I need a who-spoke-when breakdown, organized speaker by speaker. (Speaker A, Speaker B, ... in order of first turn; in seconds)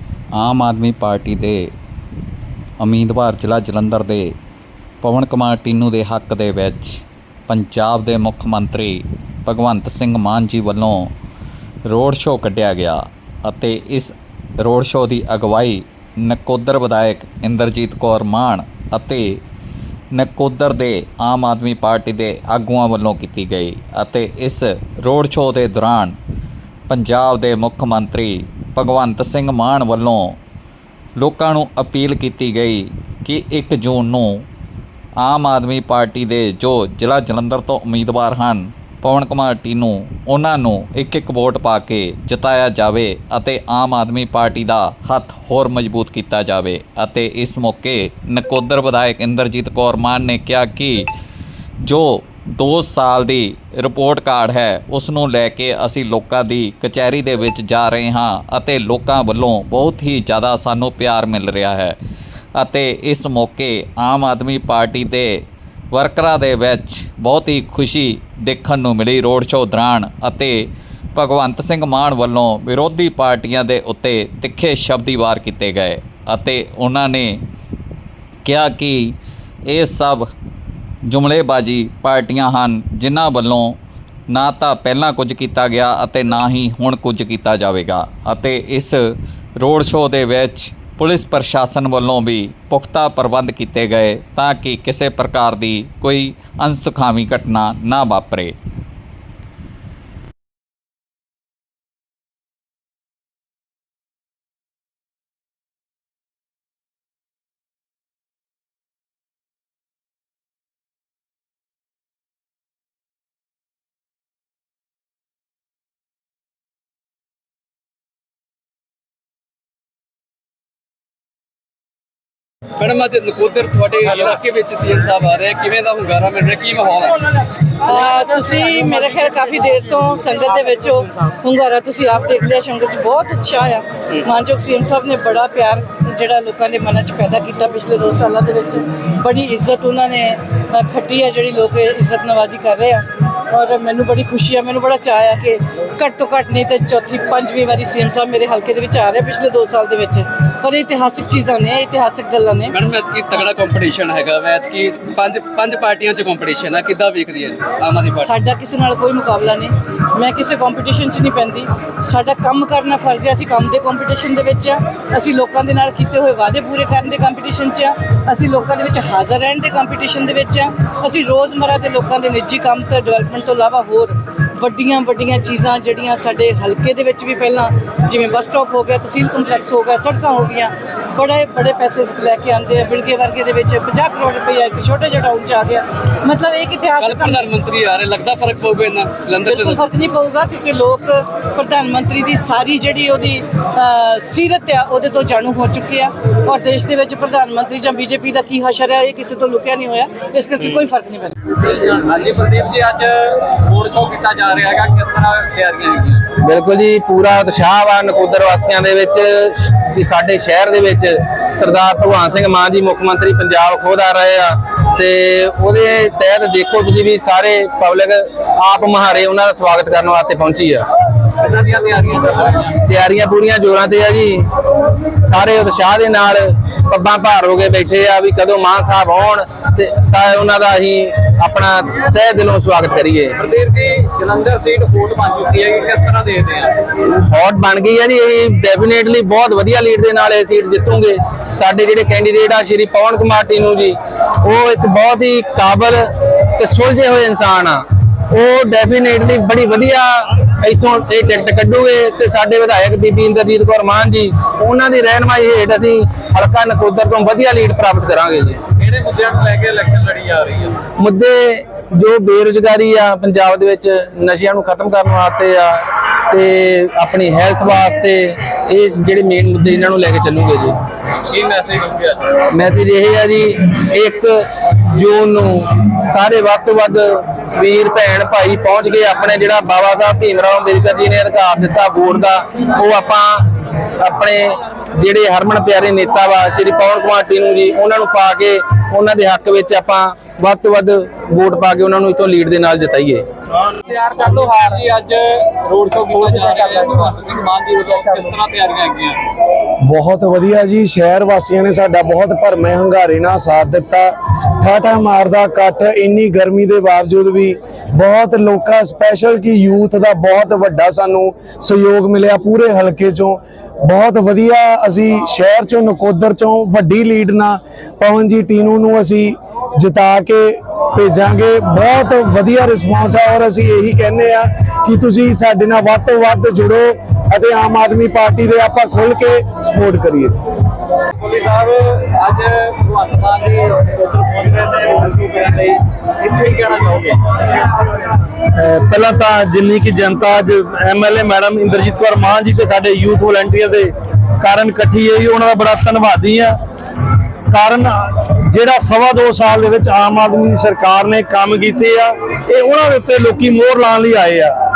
Speaker A: 0.4-1.7, 2.8-4.3, 5.0-11.1, 11.9-19.4, 20.1-26.2, 26.9-30.4, 31.2-34.5, 35.2-51.1, 51.8-62.0, 62.6-65.4, 65.9-77.4, 78.5-79.2, 79.7-80.3, 81.1-83.8, 84.3-98.5
Speaker B: 122.8-127.4, 152.7-158.3, 187.0-189.8, 201.6-206.2, 221.4-222.7, 233.4-236.7, 258.8-260.8, 271.3-272.2, 294.0-299.2, 331.2-337.4
Speaker C: 127.8-152.8, 158.2-187.4, 189.4-201.5
Speaker D: 206.4-220.9, 222.8-224.5, 225.2-233.3, 237.0-258.6, 261.0-270.8, 272.4-283.5, 284.0-293.2
Speaker E: 299.9-330.4
Speaker F: 338.6-346.6, 347.5-354.5